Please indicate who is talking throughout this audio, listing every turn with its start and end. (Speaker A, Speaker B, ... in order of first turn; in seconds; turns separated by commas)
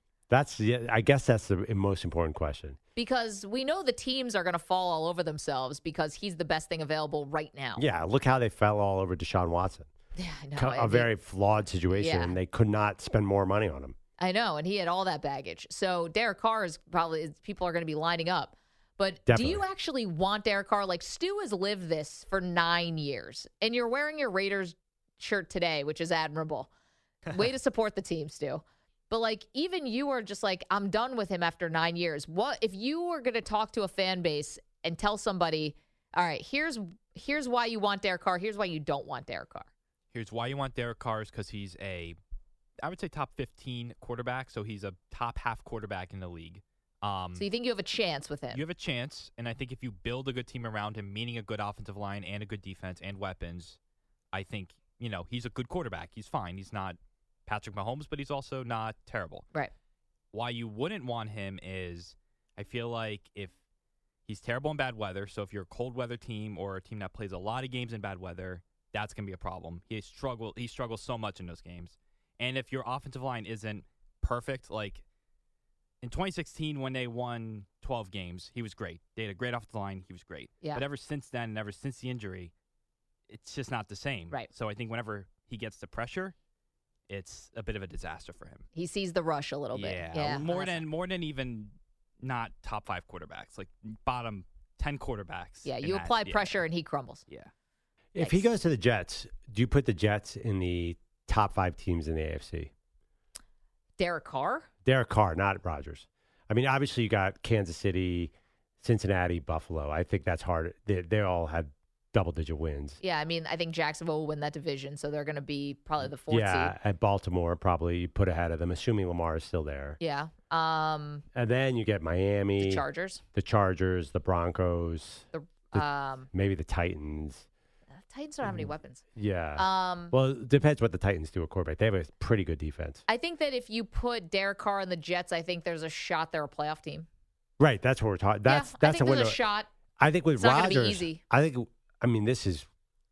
Speaker A: 0.3-2.8, Speaker B: 3.0-7.8, Speaker A: 7.8-9.9, Speaker B: 10.2-11.1, Speaker A: 10.6-13.9, Speaker B: 11.9-12.3, Speaker B: 14.2-26.7, Speaker A: 19.3-19.6, Speaker B: 27.3-39.7, Speaker C: 40.1-42.2, Speaker C: 42.8-47.4, Speaker B: 47.4-48.6, Speaker C: 48.5-53.8, Speaker C: 54.3-59.4, Speaker C: 60.3-63.5, Speaker C: 64.2-75.0, Speaker C: 76.0-82.5, Speaker C: 83.3-86.3, Speaker C: 87.1-88.6, Speaker B: 88.7-90.8, Speaker C: 89.7-96.6, Speaker B: 95.6-97.2, Speaker A: 98.1-102.7, Speaker B: 98.2-98.4, Speaker B: 104.0-104.7, Speaker A: 104.8-113.0, Speaker B: 113.0-116.7, Speaker A: 116.3-120.0, Speaker B: 120.0-121.2, Speaker A: 121.3-127.5, Speaker B: 122.6-123.2, Speaker B: 125.3-126.3, Speaker B: 127.9-129.0, Speaker A: 128.4-133.0, Speaker B: 129.6-130.1, Speaker B: 133.1-137.1, Speaker A: 137.6-139.4, Speaker B: 138.4-139.7, Speaker A: 140.0-142.7, Speaker B: 140.3-141.2